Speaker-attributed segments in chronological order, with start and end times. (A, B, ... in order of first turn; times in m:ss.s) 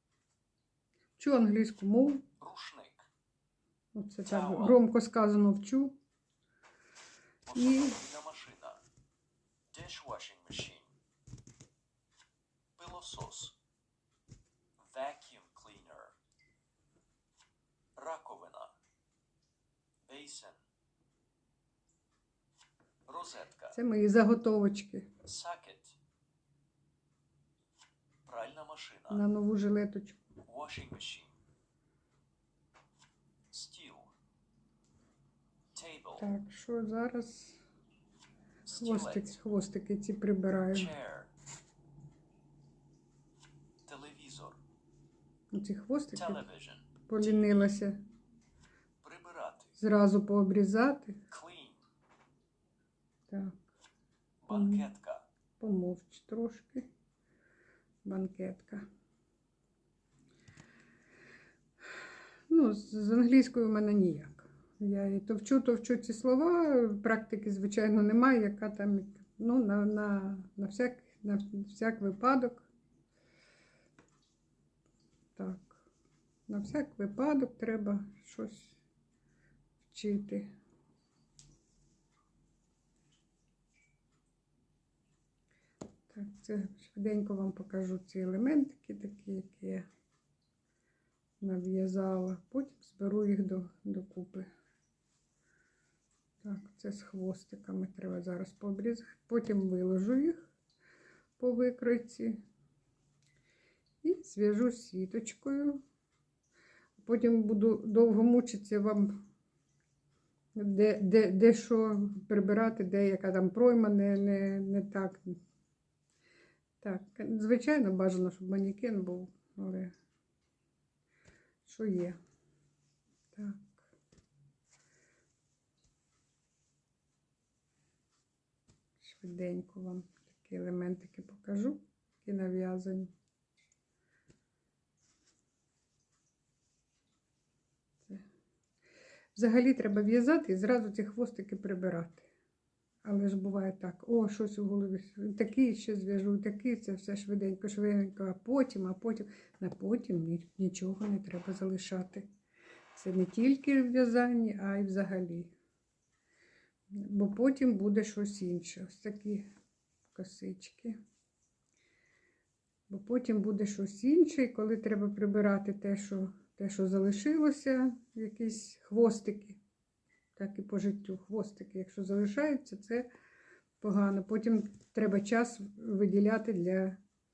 0:01.2-0:02.2 A
0:02.4-0:03.0 B
0:04.0-0:06.0 A
0:04.3-0:04.8 B
0:07.5-0:08.8 B
0:07.5-0:08.0 A
0:09.7-0:10.9 B
0:12.8-0:13.5 B
0:14.8-0:16.2 B
0:18.0-0:18.8 B
0:20.1-0:20.6 B
0:23.1-0:23.8 B
0:23.7-0:25.1 A
0:25.2-0:26.0 B
0:28.3-0:29.2 B
0:29.1-0:30.2 A
0:30.4-0:31.4 B
0:33.5-0:34.1 B
0:35.8-0:36.2 B
0:36.2-0:37.6 A
0:38.6-0:39.4 B
0:38.7-0:40.9 A
0:40.7-0:41.3 B
0:43.9-0:44.6 B
0:45.5-0:46.4 A
0:46.2-0:47.6 B
0:47.1-0:48.0 A
0:49.0-0:49.8 B
0:49.8-0:51.2 A
0:51.3-0:51.8 B
0:53.3-0:53.6 A
0:54.4-0:55.2 B
0:54.5-0:54.9 A
0:55.6-0:56.9 A
0:58.0-0:58.8 A
1:02.5-1:12.7 A
1:15.4-1:15.8 A
1:16.5-1:18.8 A
1:19.8-1:20.5 A
1:26.1-1:29.9 A
1:31.4-1:34.5 A
1:36.4-1:40.5 A
1:41.4-1:42.4 A
1:44.0-1:45.8 A
1:47.0-1:49.2 A
1:50.6-1:55.4 A
1:56.8-1:59.9 A
2:01.7-2:02.2 A
2:03.3-2:03.9 A
2:09.0-2:13.1 A
2:19.4-2:22.3 A
2:23.0-2:32.3 A
2:32.9-2:35.5 A
2:37.0-2:39.5 A
2:40.1-2:41.0 A
2:42.9-2:49.6 A
2:50.4-2:53.1 A
2:53.8-2:57.0 A